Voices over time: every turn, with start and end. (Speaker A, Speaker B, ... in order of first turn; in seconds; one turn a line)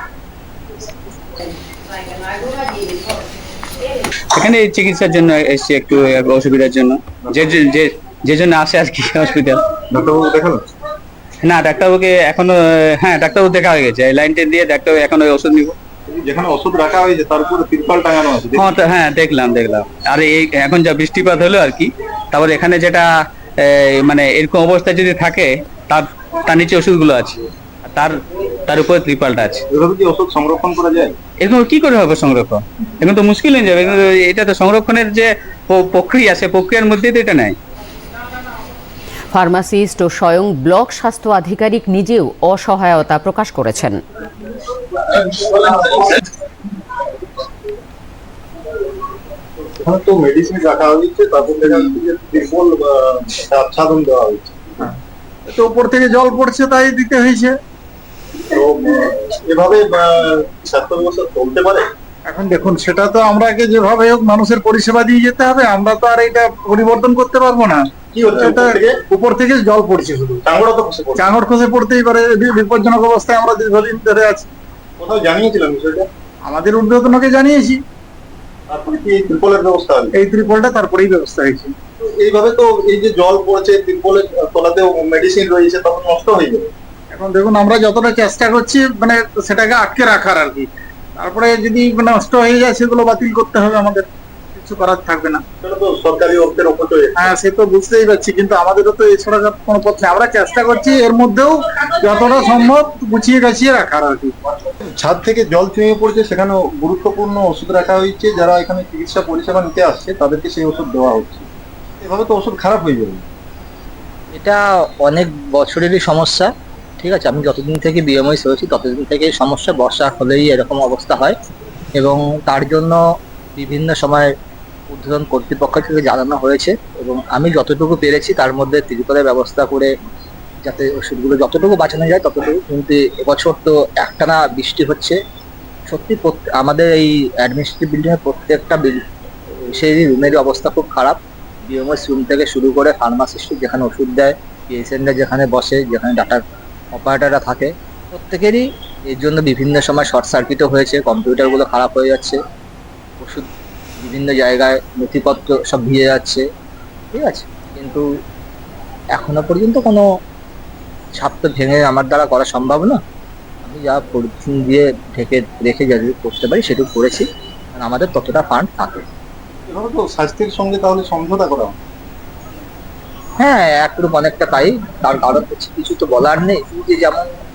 Speaker A: 4.3-9.6
Speaker B: 9.9-10.6
Speaker A: 11.4-15.7
Speaker B: 16.2-18.6
Speaker A: 18.5-27.4
Speaker A: 27.9-29.6
Speaker B: 29.7-31.1
Speaker A: 31.4-37.5
Speaker C: 39.3-44.0
Speaker B: 45.1-46.0
Speaker B: 49.6-54.9
Speaker D: 55.5-57.5
Speaker B: 58.5-61.9
Speaker D: 62.3-70.4
Speaker B: 68.1-69.0
Speaker B: 70.4-71.3
Speaker D: 71.2-74.5
Speaker B: 75.0-76.1
Speaker D: 76.4-77.8
Speaker B: 78.7-80.1
Speaker D: 80.1-81.7
Speaker B: 82.2-86.7
Speaker D: 87.1-94.0
Speaker D: 94.5-95.4
Speaker B: 95.6-97.3
Speaker D: 97.2-104.3
Speaker B: 104.9-111.5
Speaker B: 112.0-113.2
Speaker E: 114.3-121.3
Speaker E: 122.0-123.0
Speaker E: 123.6-124.3
Speaker E: 124.9-129.9
Speaker E: 130.7-135.2
Speaker E: 135.9-139.0
Speaker E: 139.7-146.4
Speaker E: 146.9-152.4
Speaker E: 154.0-156.4
Speaker E: 157.1-158.1
Speaker E: 159.1-160.0
Speaker E: 161.2-163.0
Speaker E: 163.6-167.2
Speaker E: 167.8-169.0
Speaker B: 169.7-171.7
Speaker E: 173.4-177.2